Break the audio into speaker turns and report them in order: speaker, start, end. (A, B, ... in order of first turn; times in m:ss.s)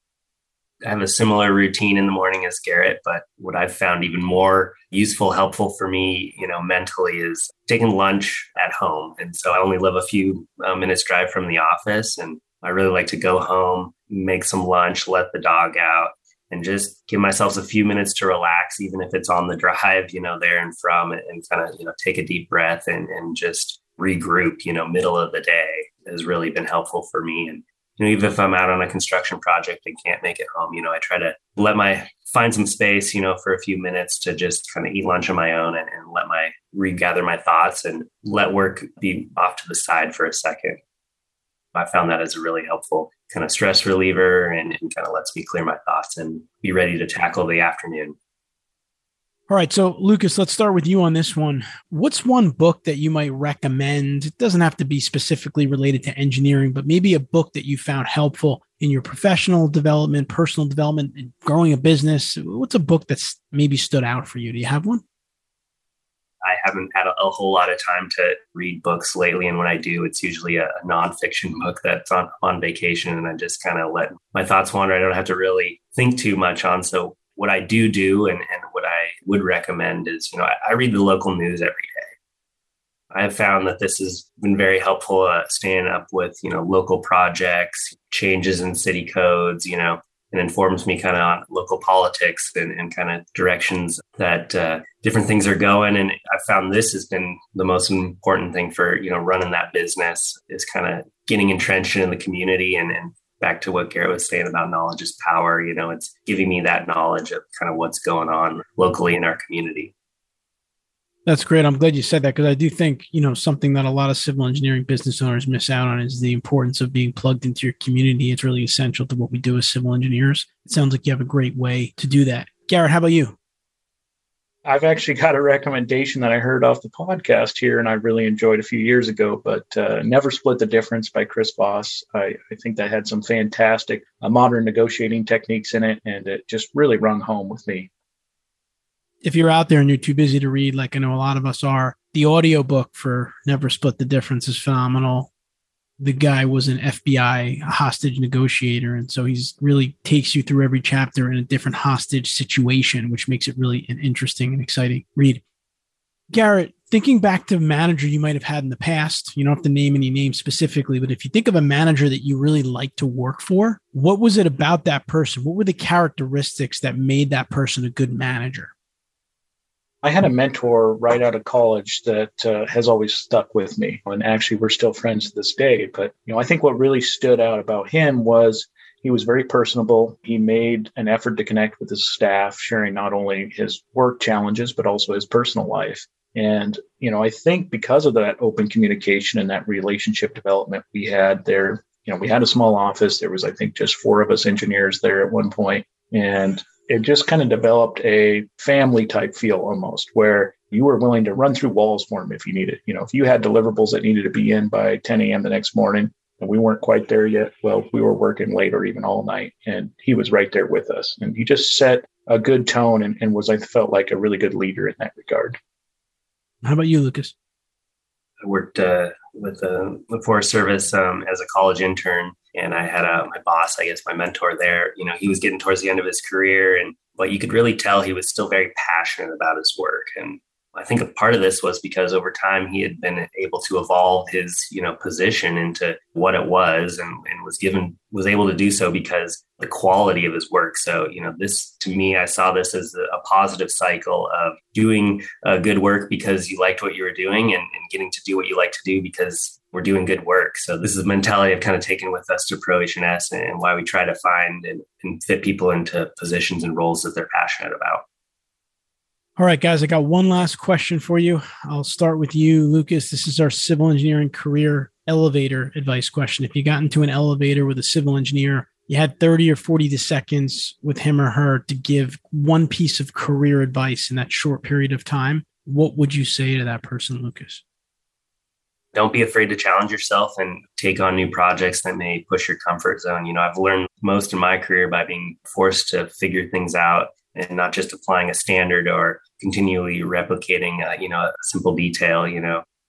0:00.8-0:40.8 A
0:41.7-0:48.1 A
0:49.5-1:05.0 B
1:06.4-1:22.1 A
1:23.1-1:49.9 A
1:51.2-2:03.4 B
2:04.6-2:17.9 C
2:19.2-2:25.3 B
2:26.0-2:35.4 B
2:36.3-2:48.7 B
2:50.0-3:35.6 C
3:36.6-3:37.3 B
3:38.4-4:18.0 A
4:19.4-4:37.6 B
4:38.9-4:52.6 A